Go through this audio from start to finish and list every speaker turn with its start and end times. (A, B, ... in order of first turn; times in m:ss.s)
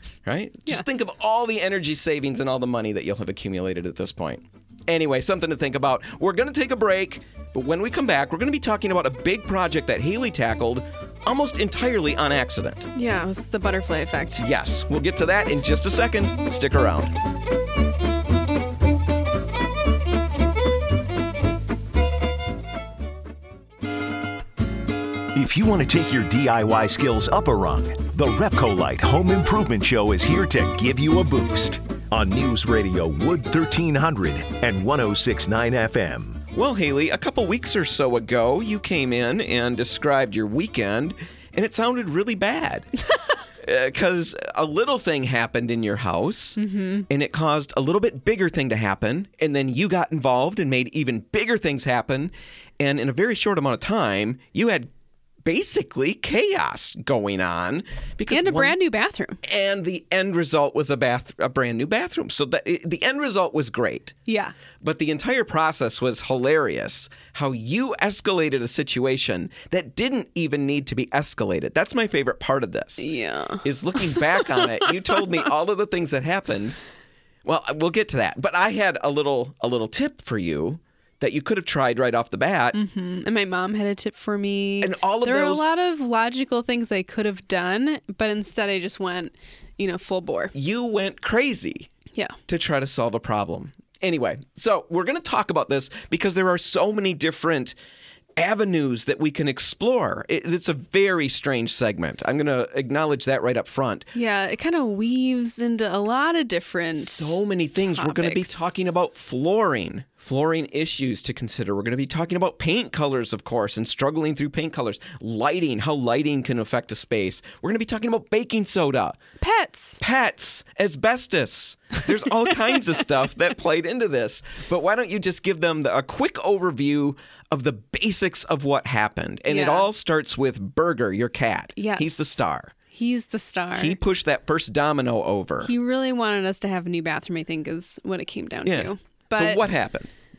0:00.2-0:12.9 A
0:12.9-0:14.4 B
0:14.4-0:17.1 A
0:25.3-0:36.4 C
0:36.5-0:42.9 A
0:43.6-0:54.9 A
0:46.6-0:47.1 B
0:55.4-0:58.8 A
0:58.3-0:59.4 B
0:59.4-1:04.2 A
1:04.3-1:04.5 B
1:04.8-1:13.1 A
1:13.0-1:14.8 B
1:13.6-1:16.8 A
1:17.4-1:22.8 A
1:22.7-1:30.5 B
1:24.8-1:25.7 A
1:30.5-1:31.9 A
1:32.5-1:37.8 A
1:38.4-1:44.1 A
1:44.1-1:48.7 B
1:47.0-1:59.2 A
1:59.4-2:00.0 B
2:00.0-2:12.7 A
2:09.5-2:09.9 B
2:11.8-2:12.4 B
2:12.9-2:14.0 B
2:13.8-2:15.7 A
2:15.6-2:19.6 B
2:18.6-2:20.1 A